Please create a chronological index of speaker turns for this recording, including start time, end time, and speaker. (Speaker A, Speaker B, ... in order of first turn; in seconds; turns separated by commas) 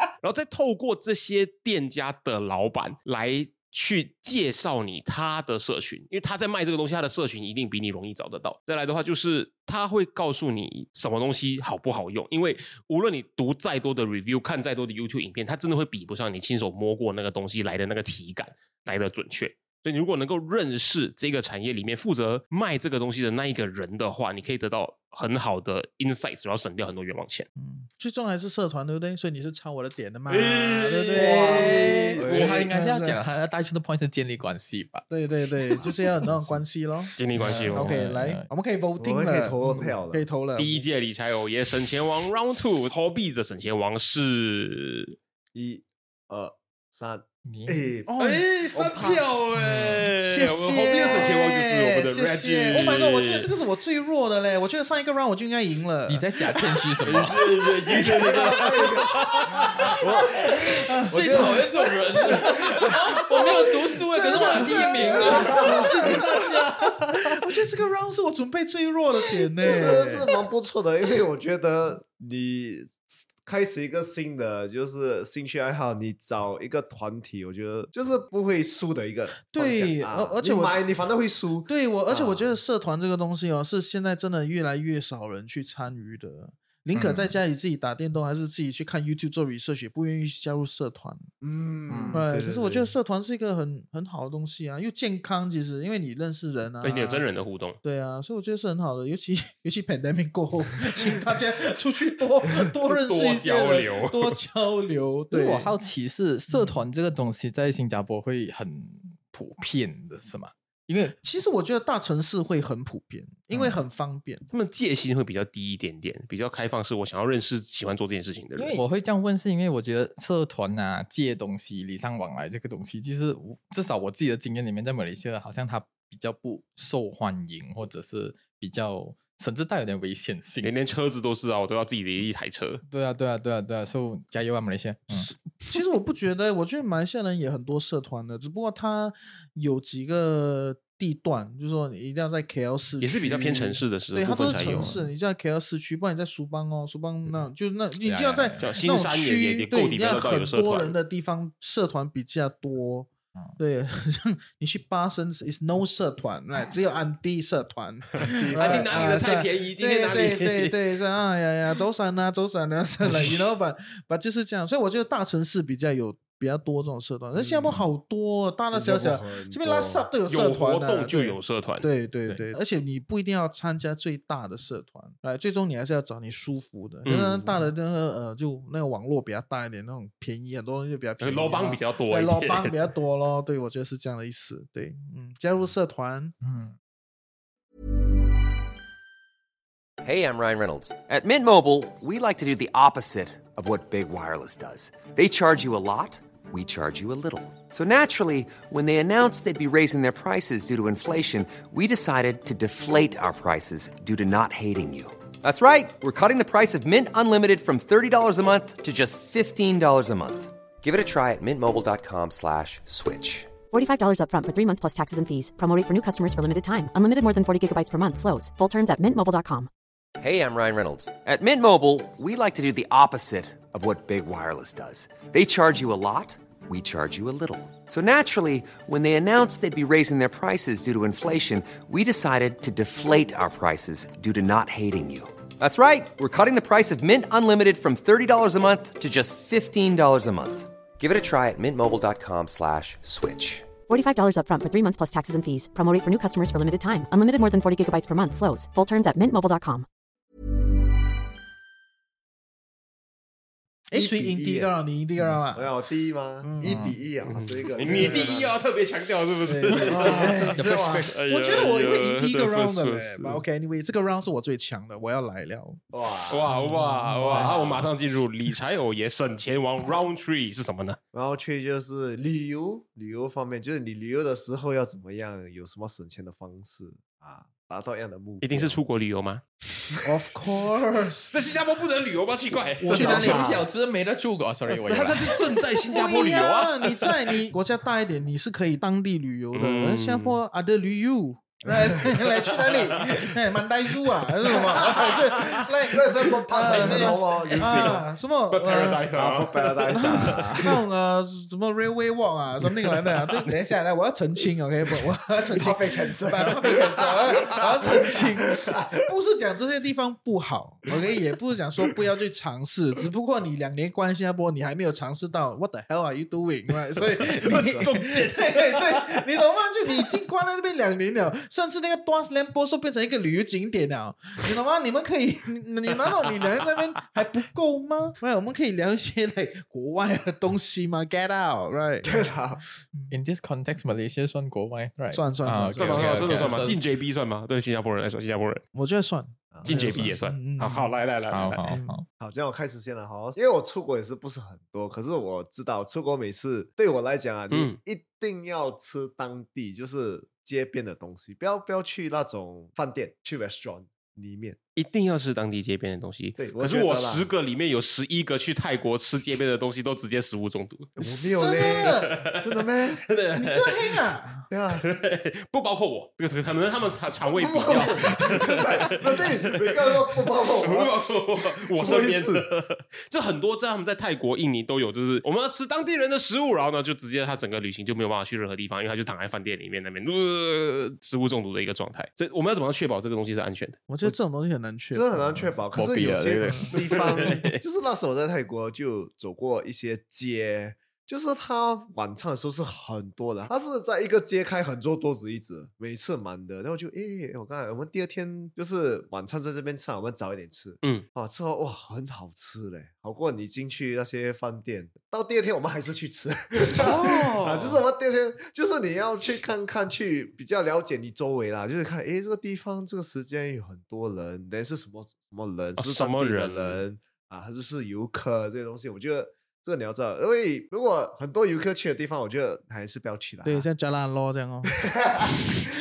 Speaker A: 0.2-27.5, Speaker B: 27.6-33.2, Speaker A: 30.3-32.1, Speaker C: 31.1-35.0, Speaker D: 32.1-32.7, Speaker B: 35.1-40.8, Speaker A: 37.2-38.0, Speaker C: 37.4-38.5, Speaker D: 39.0-40.2, Speaker A: 40.6-45.2, Speaker D: 45.5-49.2, Speaker C: 47.5-47.9, Speaker B: 48.1-49.1, Speaker A: 48.9-53.5, Speaker C: 49.5-50.1, Speaker B: 49.7-56.3, Speaker C: 56.1-58.4, Speaker A: 57.0-59.9, Speaker B: 57.3-58.9, Speaker D: 58.0-59.2, Speaker B: 59.5-70.2, Speaker C: 59.5-66.2, Speaker D: 60.0-60.5, Speaker D: 61.1-61.7, Speaker D: 62.3-63.2, Speaker D: 64.5-66.4, Speaker D: 69.6-82.5, Speaker B: 79.5-80.8, Speaker B: 81.7-91.3, Speaker C: 86.9-87.3, Speaker D: 91.4-92.9, Speaker C: 91.9-92.2, Speaker B: 92.1-97.2, Speaker A: 96.8-97.8, Speaker B: 97.8-105.7, Speaker A: 102.9-104.3, Speaker C: 105.3-111.2, Speaker B: 111.2-114.5, Speaker C: 113.5-113.8, Speaker A: 114.5-118.8, Speaker C: 118.6-130.7, Speaker A: 130.6-132.8, Speaker C: 132.9-135.3, Speaker B: 135.7-186.3, Speaker A: 143.0-144.9, Speaker C: 144.4-145.1, Speaker C: 148.0-148.7, Speaker A: 148.6-150.9, Speaker D: 158.3-159.2, Speaker A: 158.5-160.8, Speaker D: 167.3-167.8, Speaker D: 168.7-170.1, Speaker A: 170.3-171.9, Speaker A: 177.0-177.6, Speaker A: 181.2-182.8, Speaker C: 186.4-186.7, Speaker E: 190.0-213.5, Speaker F: 213.7-219.7, Speaker E: 220.2-243.7, Speaker F: 243.9-249.8, Speaker B: 253.9-255.7, Speaker D: 253.9-254.7, Speaker D: 255.5-258.5, Speaker B: 256.4-256.9, Speaker C: 256.6-256.9, Speaker A: 257.2-263.4, Speaker B: 257.8-258.4, Speaker B: 259.4-265.8, Speaker D: 259.7-261.2, Speaker C: 260.6-261.1, Speaker D: 265.9-266.4, Speaker A: 266.3-271.0, Speaker B: 266.5-267.5, Speaker C: 266.6-267.8, Speaker D: 271.1-278.8, Speaker A: 278.4-279.4, Speaker B: 280.0-281.3, Speaker A: 281.3-283.6, Speaker B: 282.8-283.5, Speaker C: 282.9-285.4, Speaker A: 284.8-287.3, Speaker B: 285.8-299.1, Speaker A: 289.5-290.4, Speaker A: 292.6-293.2, Speaker A: 294.6-295.5, Speaker D: 294.7-295.1, Speaker D: 295.9-298.0, Speaker A: 296.6-300.7, Speaker D: 299.1-300.8, Speaker B: 299.9-332.2, Speaker D: 305.5-308.9, Speaker A: 306.9-307.6, Speaker D: 317.2-317.9, Speaker A: 317.4-319.2, Speaker D: 332.0-332.6, Speaker C: 333.1-336.8, Speaker B: 335.1-336.8, Speaker A: 335.8-338.6, Speaker B: 338.7-340.9, Speaker D: 339.5-340.0, Speaker A: 339.6-341.7, Speaker C: 341.3-342.0, Speaker B: 341.6-342.0, Speaker D: 342.2-354.6, Speaker A: 347.5-347.8, Speaker A: 354.8-361.1, Speaker D: 356.4-357.3, Speaker D: 361.0-363.0, Speaker B: 361.2-362.2, Speaker A: 362.2-364.0, Speaker B: 363.3-364.5, Speaker D: 364.5-364.9, Speaker A: 364.7-383.8, Speaker D: 367.3-372.4, Speaker B: 383.9-385.6, Speaker D: 384.9-423.7, Speaker C: 385.7-387.5, Speaker B: 386.4-386.7, Speaker A: 386.9-387.5, Speaker A: 406.6-407.8, Speaker A: 415.8-416.8, Speaker B: 423.4-424.8, Speaker D: 424.7-425.4